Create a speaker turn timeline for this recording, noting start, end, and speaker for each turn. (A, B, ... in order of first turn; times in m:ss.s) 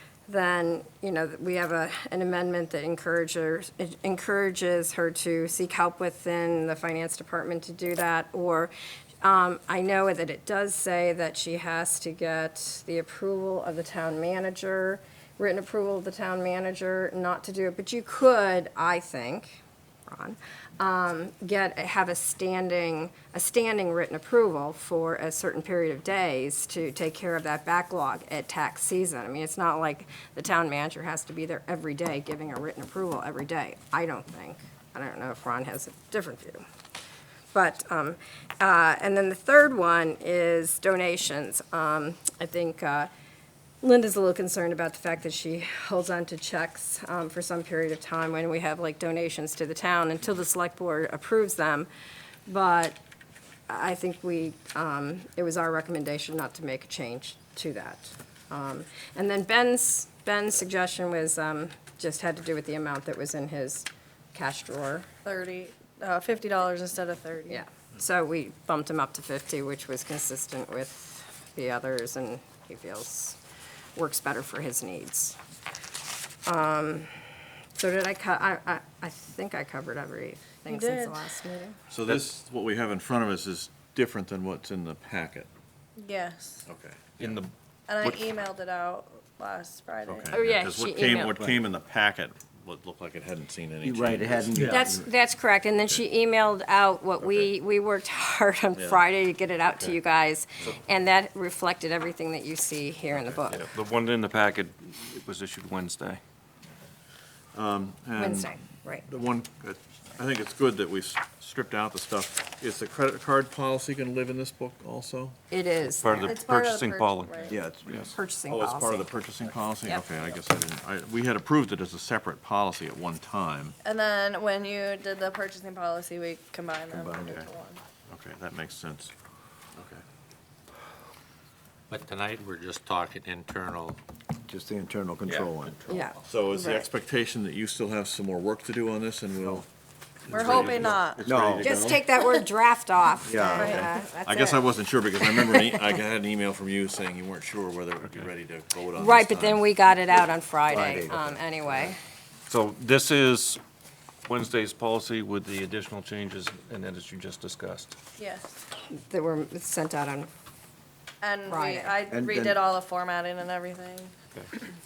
0:00.3-0:36.6 A
0:37.5-0:43.1 A
0:43.8-0:51.9 A
0:52.5-0:53.0 A
0:53.7-1:05.1 A
1:05.2-1:07.6 B
1:07.5-1:13.4 A
1:13.9-1:15.4 A
1:16.4-1:17.1 A
1:17.8-1:21.8 A
1:20.7-1:21.2 B
1:21.9-1:25.5 C
1:26.0-1:26.7 B
1:26.7-1:27.4 C
1:27.2-1:28.2 D
1:27.9-1:30.3 B
1:30.1-1:35.1 C
1:30.3-1:31.6 A
1:33.8-1:35.0 E
1:34.6-1:34.8 F
1:34.7-1:43.6 A
1:37.2-1:37.5 C
1:38.8-1:39.0 C
1:43.1-1:43.4 C
1:43.5-1:46.2 D
1:47.5-1:48.5 C
1:48.2-1:49.0 A
1:49.0-1:55.4 C
1:55.5-1:56.4 A
1:56.0-1:58.1 D
1:56.2-1:57.6 B
1:57.5-1:57.9 E
1:58.1-1:59.1 A
1:58.5-2:03.8 C
2:03.8-2:07.8 B
2:06.9-2:07.3 E
2:08.1-2:09.1 C
2:09.8-2:10.0 C
2:11.9-2:14.0 F
2:14.5-2:15.8 E
2:15.2-2:16.2 F
2:15.9-2:16.9 A
2:16.2-2:19.7 C
2:20.3-2:22.0 C
2:20.3-2:21.2 B
2:20.3-2:20.7 D
2:21.2-2:21.8 E
2:21.6-2:26.0 A
2:23.2-2:23.8 E
2:23.2-2:29.7 C
2:23.6-2:23.8 B
2:29.0-2:32.0 A
2:30.7-2:31.9 E
2:32.5-2:33.6 D
2:34.2-2:38.0 D
2:38.2-2:38.6 B
2:39.0-2:40.3 A
2:41.2-2:44.1 B
2:41.5-2:42.0 A
2:42.1-2:42.6 E